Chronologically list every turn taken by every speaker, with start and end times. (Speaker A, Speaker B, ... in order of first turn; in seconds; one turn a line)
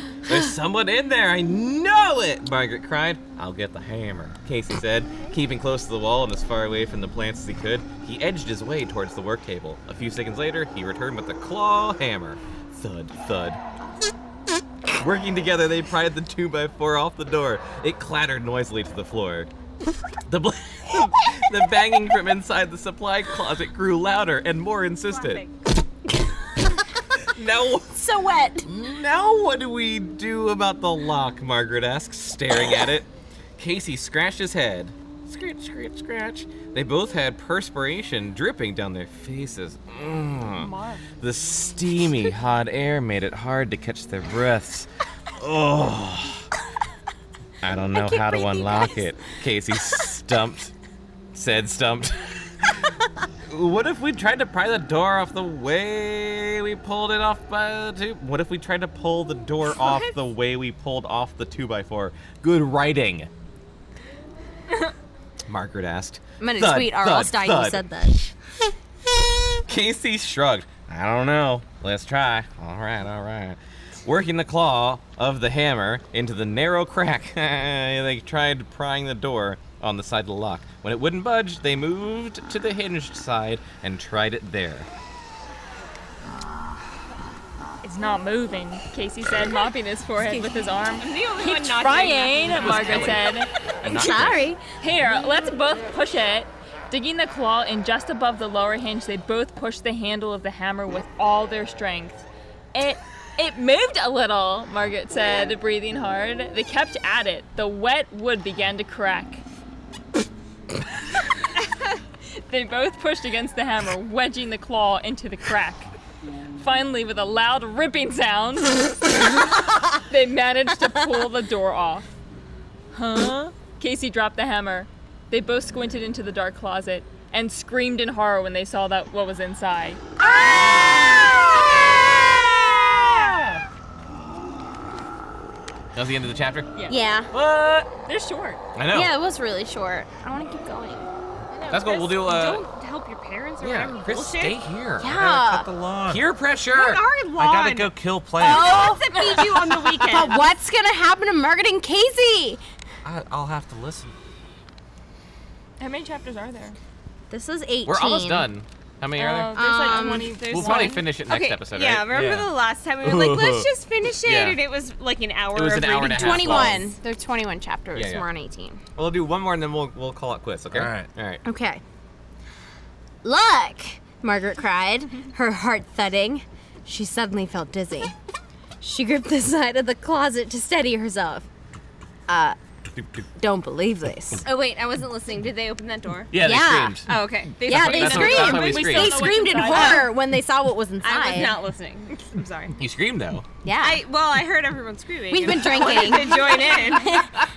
Speaker A: 0.2-13.6
Speaker A: 15.0-19.5
Speaker A: 20.3-25.4
Speaker B: 25.1-25.5
Speaker A: 27.3-28.0
Speaker C: 27.9-28.6
Speaker A: 28.6-40.7
Speaker D: 40.6-41.0
Speaker A: 41.2-46.5
Speaker A: 47.6-50.7
Speaker C: 47.9-49.0
Speaker A: 51.3-52.9
Speaker A: 53.5-63.3
Speaker B: 59.7-60.1
Speaker A: 65.5-67.8
Speaker C: 66.4-68.3
Speaker A: 69.5-84.9
Speaker D: 87.8-93.5
Speaker B: 91.0-93.2
Speaker A: 92.4-94.5
Speaker C: 93.9-94.6
Speaker D: 94.8-109.4
Speaker D: 112.3-115.9
Speaker D: 116.5-119.3
Speaker D: 120.1-122.1
Speaker D: 122.9-130.0
Speaker C: 130.2-131.4
Speaker A: 130.6-131.0
Speaker A: 132.3-133.5
Speaker A: 135.9-136.7
Speaker C: 136.9-137.3
Speaker A: 137.3-137.9
Speaker D: 138.1-138.6
Speaker A: 138.7-139.1
Speaker C: 138.9-141.1
Speaker B: 141.5-144.6
Speaker A: 141.7-142.6
Speaker A: 143.6-145.2
Speaker C: 145.0-145.7
Speaker E: 145.1-146.2
Speaker A: 146.1-147.0
Speaker B: 146.7-150.4
Speaker E: 147.4-149.1
Speaker C: 148.4-152.6
Speaker E: 153.0-154.1
Speaker D: 155.8-156.8
Speaker C: 157.3-158.5
Speaker A: 157.8-159.5
Speaker D: 159.2-161.0
Speaker C: 159.5-160.3
Speaker B: 159.6-166.8
Speaker A: 160.5-162.2
Speaker E: 162.1-162.5
Speaker A: 163.0-164.6
Speaker A: 165.5-166.9
Speaker C: 166.1-168.8
Speaker A: 167.9-168.2
Speaker A: 168.9-171.4
Speaker E: 170.7-171.1
Speaker C: 171.4-171.8
Speaker C: 173.2-178.1
Speaker C: 178.8-181.5
Speaker C: 182.3-182.6
Speaker A: 182.9-183.2
Speaker C: 183.3-184.4
Speaker B: 184.4-186.3
Speaker A: 186.3-189.3
Speaker C: 186.4-187.0
Speaker B: 187.1-188.9
Speaker C: 187.6-191.6
Speaker D: 188.4-190.1
Speaker B: 189.5-190.1
Speaker B: 191.0-192.8
Speaker A: 192.8-193.5
Speaker C: 193.6-194.0
Speaker B: 193.8-197.2
Speaker C: 195.3-197.3